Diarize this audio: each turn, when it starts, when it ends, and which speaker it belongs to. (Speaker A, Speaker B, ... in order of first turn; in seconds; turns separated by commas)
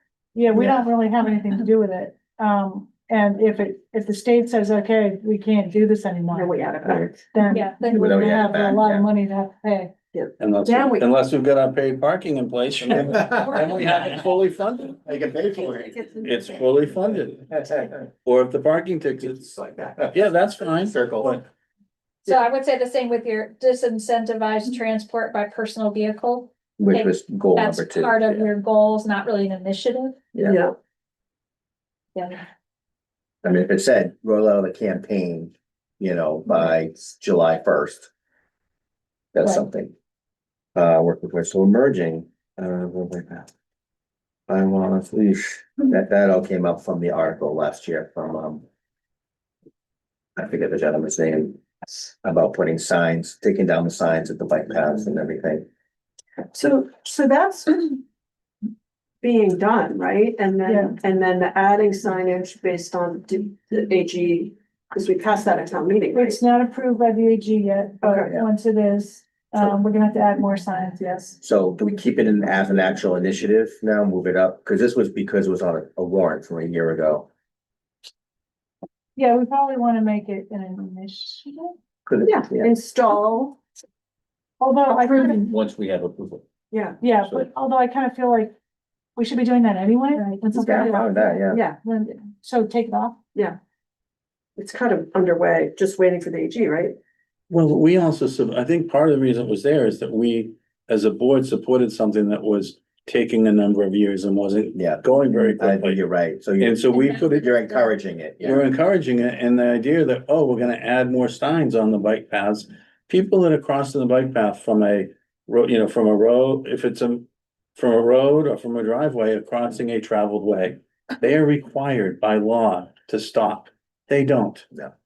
Speaker A: 0.3-9.9, Speaker B: 6.3-7.2, Speaker C: 7.5-8.1, Speaker D: 7.9-9.1, Speaker B: 10.1-11.1, Speaker E: 10.4-15.1, Speaker D: 13.1-15.9, Speaker B: 13.6-14.1, Speaker B: 15.6-16.8, Speaker E: 16.2-17.5, Speaker D: 17.4-18.0, Speaker E: 18.2-19.5, Speaker D: 19.3-21.4, Speaker E: 20.1-21.4, Speaker C: 22.2-30.2, Speaker D: 26.8-28.5, Speaker B: 30.4-30.8, Speaker C: 32.1-32.5, Speaker D: 33.4-38.1, Speaker D: 39.3-39.9, Speaker D: 40.8-43.5, Speaker D: 44.5-48.6, Speaker D: 50.4-51.6, Speaker D: 52.2-55.7, Speaker B: 56.5-58.0, Speaker B: 59.2-66.4, Speaker A: 60.6-61.0, Speaker A: 66.1-71.4, Speaker B: 68.0-68.3, Speaker D: 71.4-77.3, Speaker A: 79.2-81.7, Speaker D: 82.1-82.7, Speaker B: 82.2-83.6, Speaker A: 84.6-85.5, Speaker B: 84.9-85.4, Speaker D: 85.3-86.4, Speaker B: 86.7-87.0, Speaker A: 87.0-88.6, Speaker A: 89.2-93.2, Speaker D: 90.5-91.6, Speaker B: 91.5-91.8, Speaker B: 94.6-97.0, Speaker E: 97.5-106.0, Speaker D: 104.8-108.6, Speaker E: 106.6-107.2, Speaker C: 107.0-108.0, Speaker E: 108.4-124.7